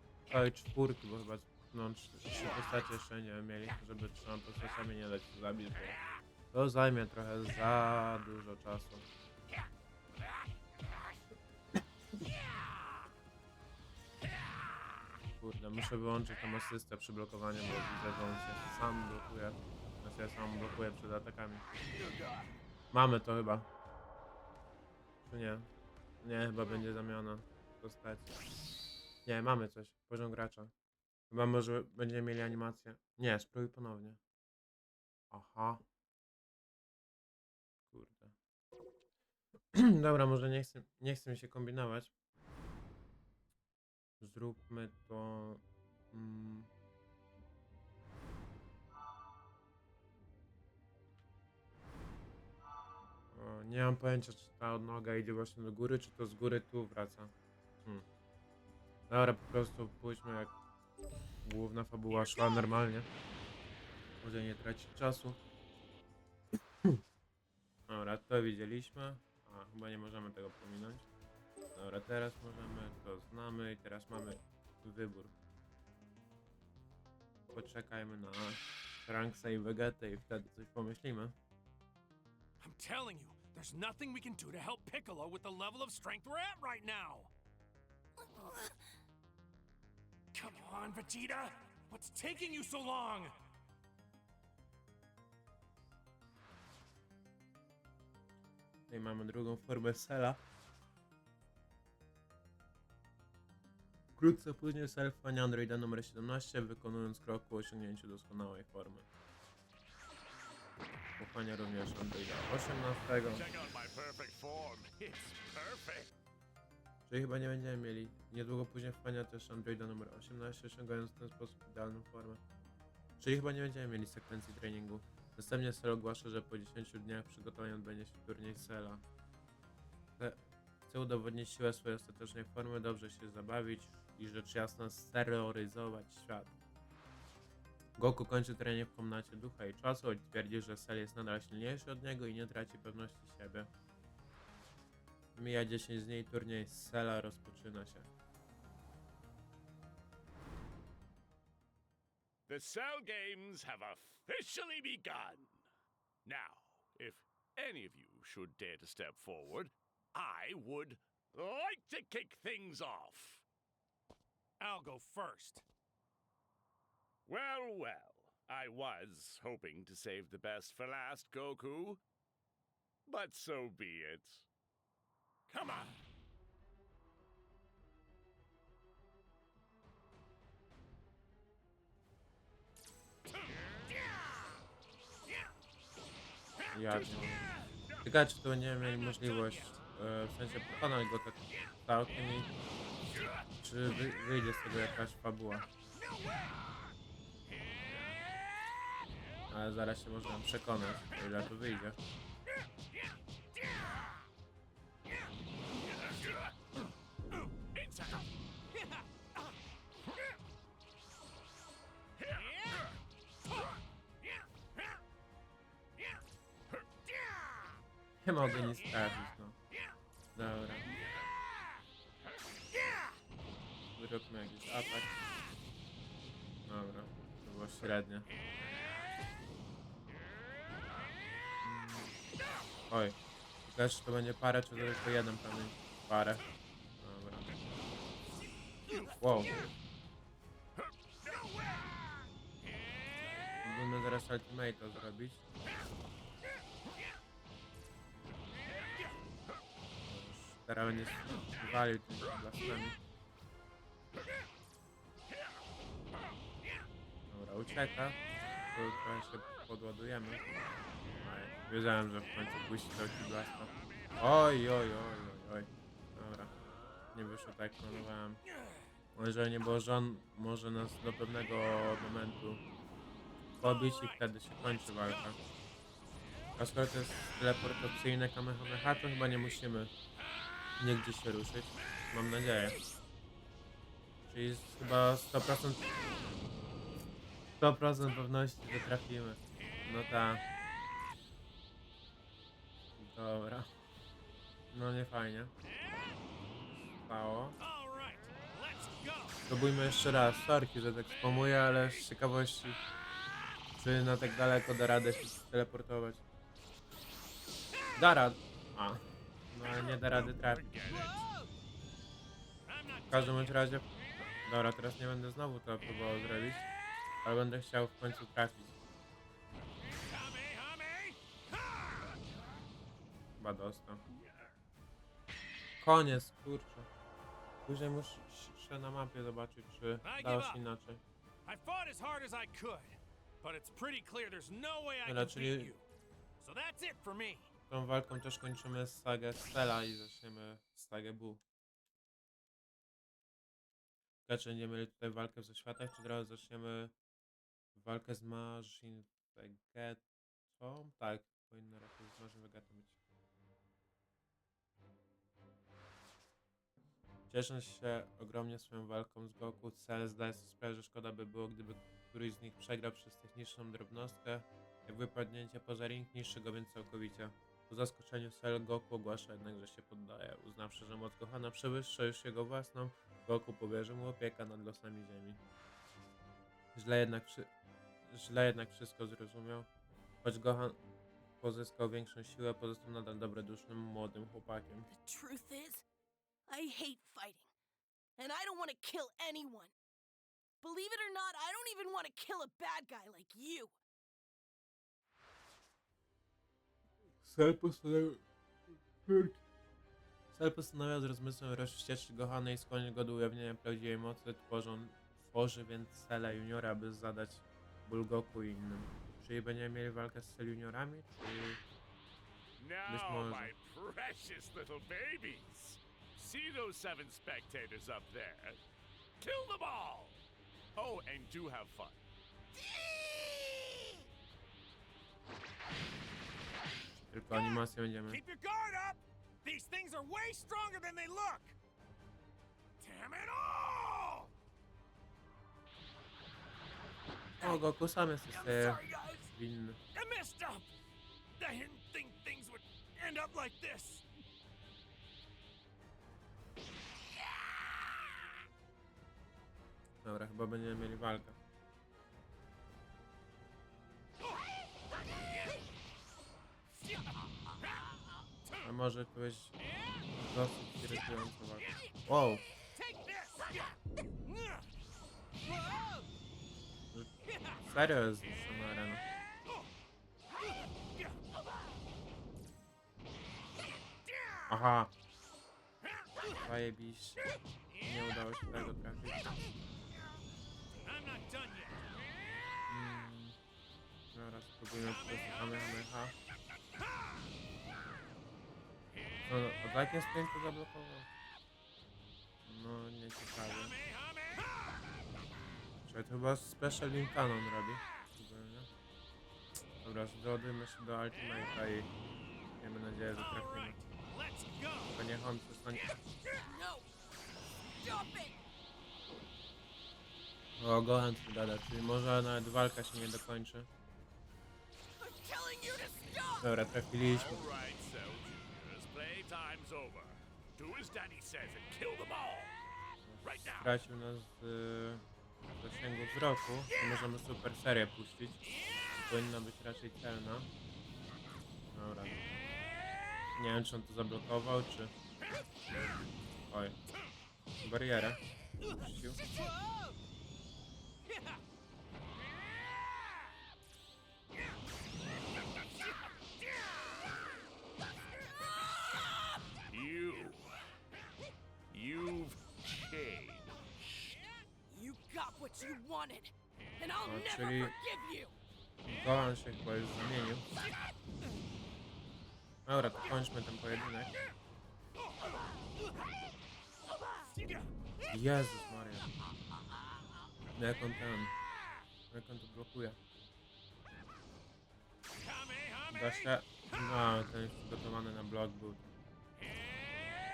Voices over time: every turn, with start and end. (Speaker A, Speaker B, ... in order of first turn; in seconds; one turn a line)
Speaker A: 0.3-6.0
Speaker A: 6.5-9.1
Speaker A: 15.4-21.6
Speaker A: 22.9-23.7
Speaker A: 25.2-25.7
Speaker A: 26.2-28.3
Speaker A: 29.2-30.7
Speaker A: 31.3-34.2
Speaker A: 35.3-35.8
Speaker A: 37.9-38.3
Speaker A: 39.7-42.1
Speaker A: 44.2-46.7
Speaker A: 53.3-57.3
Speaker A: 59.1-60.5
Speaker A: 61.4-63.1
Speaker B: 62.1-62.6
Speaker A: 64.2-65.4
Speaker A: 67.9-71.1
Speaker A: 71.8-75.3
Speaker A: 77.5-81.3
Speaker B: 82.6-87.3
Speaker B: 90.3-93.3
Speaker A: 98.9-100.4
Speaker A: 104.2-109.1
Speaker A: 111.2-113.5
Speaker C: 113.3-116.1
Speaker A: 117.1-122.4
Speaker A: 123.2-129.0
Speaker A: 130.2-136.5
Speaker A: 138.0-143.7
Speaker A: 145.3-148.1
Speaker C: 152.5-155.6
Speaker C: 156.2-163.4
Speaker B: 164.6-165.6
Speaker C: 167.3-172.0
Speaker C: 173.1-174.5
Speaker A: 186.7-187.4
Speaker A: 188.0-192.5
Speaker A: 193.6-195.7
Speaker A: 199.5-202.0
Speaker C: 205.9-206.5
Speaker C: 207.7-208.3
Speaker B: 208.8-209.0
Speaker C: 212.2-212.8
Speaker B: 212.3-212.8
Speaker A: 218.2-219.6
Speaker A: 220.3-220.9
Speaker A: 224.0-225.1
Speaker A: 226.7-228.3
Speaker A: 231.6-232.2
Speaker A: 232.9-236.4
Speaker A: 237.0-237.5
Speaker A: 239.2-239.6
Speaker C: 243.3-243.7
Speaker A: 243.6-245.4
Speaker A: 250.0-253.0
Speaker A: 257.3-266.5
Speaker A: 267.1-268.4
Speaker A: 269.1-272.6
Speaker A: 273.6-275.4
Speaker B: 273.6-275.3
Speaker A: 276.6-279.9
Speaker A: 280.8-282.8
Speaker A: 284.3-285.9
Speaker A: 287.6-290.4
Speaker A: 293.0-293.7
Speaker A: 294.7-295.5
Speaker A: 297.0-297.6
Speaker B: 297.6-299.4
Speaker A: 299.5-302.8
Speaker A: 303.8-306.2
Speaker A: 308.0-310.6
Speaker C: 310.1-311.3
Speaker B: 312.6-313.5
Speaker A: 313.1-316.7
Speaker A: 317.2-318.8
Speaker B: 320.0-322.1
Speaker A: 323.4-324.0
Speaker A: 325.8-326.9
Speaker A: 327.6-331.0
Speaker B: 330.0-330.6
Speaker B: 331.5-335.9
Speaker A: 335.0-335.7
Speaker B: 336.4-337.5
Speaker A: 337.7-341.4
Speaker A: 344.3-346.9
Speaker A: 347.8-350.0
Speaker A: 350.5-352.9
Speaker A: 357.3-375.4
Speaker A: 376.8-377.5
Speaker A: 378.1-379.7
Speaker A: 380.2-380.8
Speaker A: 381.4-384.9
Speaker D: 384.9-385.8
Speaker D: 386.5-387.5
Speaker D: 388.2-389.7
Speaker D: 390.6-393.7
Speaker A: 397.2-398.2
Speaker A: 399.1-399.4
Speaker A: 400.3-411.6
Speaker C: 412.6-418.6
Speaker A: 412.9-413.5
Speaker C: 419.2-420.2
Speaker C: 420.8-422.0
Speaker B: 423.1-423.5
Speaker A: 427.1-428.2
Speaker B: 428.1-431.6
Speaker B: 432.8-434.3
Speaker A: 437.4-439.8
Speaker B: 438.3-439.3
Speaker B: 439.9-440.7
Speaker B: 441.4-444.0
Speaker A: 450.0-451.4
Speaker A: 458.6-459.6
Speaker A: 460.1-462.4
Speaker B: 462.7-464.6
Speaker B: 465.5-466.0
Speaker A: 467.6-469.0
Speaker A: 474.5-474.9
Speaker A: 476.4-477.2
Speaker A: 477.8-479.4
Speaker B: 480.8-481.8
Speaker A: 482.7-483.4
Speaker A: 484.1-486.1
Speaker A: 489.2-491.1
Speaker A: 492.4-493.8
Speaker A: 495.9-498.7
Speaker A: 499.8-501.9
Speaker A: 502.6-503.8
Speaker B: 503.1-505.0
Speaker A: 504.9-505.9
Speaker D: 506.4-506.9
Speaker D: 507.8-508.4
Speaker A: 510.6-513.7
Speaker D: 515.0-516.5
Speaker A: 516.4-517.5
Speaker C: 517.0-522.6
Speaker A: 523.1-525.0
Speaker C: 523.2-523.7
Speaker A: 525.6-528.5
Speaker A: 529.1-530.5
Speaker A: 531.7-532.2
Speaker A: 533.3-534.9
Speaker A: 536.5-536.8
Speaker A: 537.6-539.2
Speaker B: 539.2-539.5
Speaker C: 549.7-550.5
Speaker C: 551.7-554.2
Speaker D: 554.7-558.4
Speaker A: 557.0-557.7
Speaker A: 558.9-560.5
Speaker A: 562.7-564.1
Speaker B: 567.3-567.7
Speaker A: 568.1-569.1
Speaker A: 570.5-571.4
Speaker A: 572.1-573.0
Speaker B: 575.2-575.9
Speaker A: 575.9-578.9